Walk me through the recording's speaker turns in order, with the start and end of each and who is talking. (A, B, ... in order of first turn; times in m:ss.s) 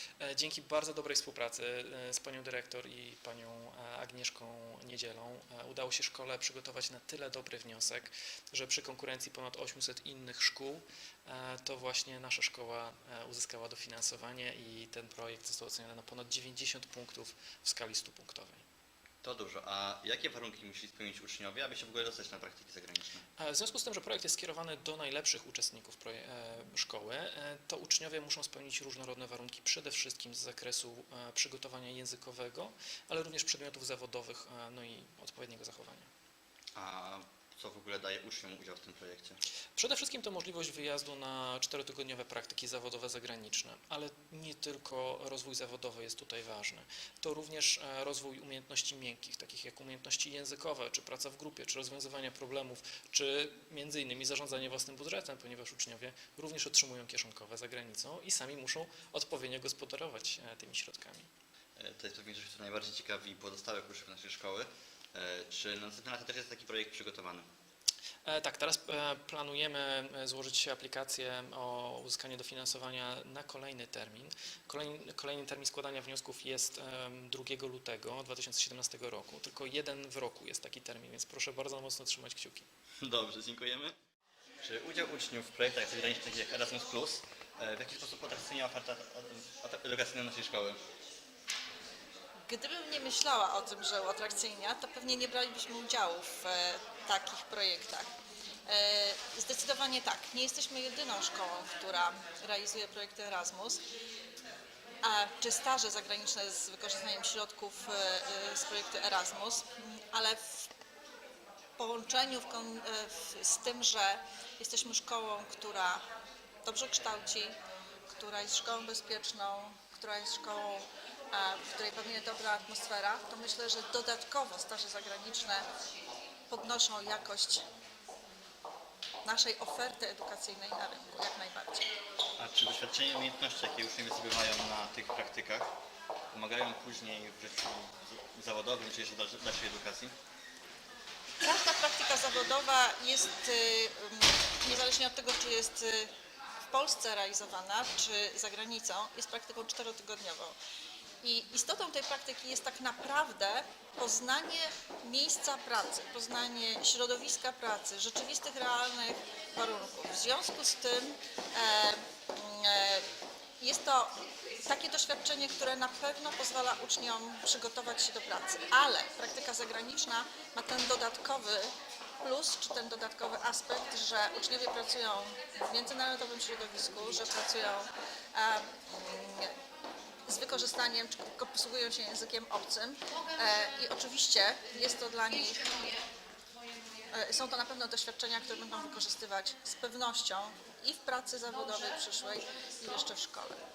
0:00.2-0:18.6 A
0:19.2-0:23.2 B
0:23.4-0:36.1 A
0:36.7-0:39.4 B
0:39.8-1:01.3 A
1:01.8-1:07.4 B
1:08.2-1:22.7 A
1:23.0-1:23.9 B
1:24.6-1:30.8 B
1:32.5-1:38.1 C
1:38.6-1:43.8 C
1:45.0-1:50.7 C
1:51.8-1:56.0 C
1:56.6-1:57.6 C
1:58.1-2:05.7 C
2:06.5-2:07.6 C
2:09.2-2:11.9 C
2:12.4-2:15.7 B
2:16.3-2:20.1 B
2:21.4-2:26.1 C
2:26.6-2:30.6 C
2:31.2-2:43.1 C
2:43.6-2:59.5 C
3:00.2-3:06.0 C
3:07.1-3:13.6 C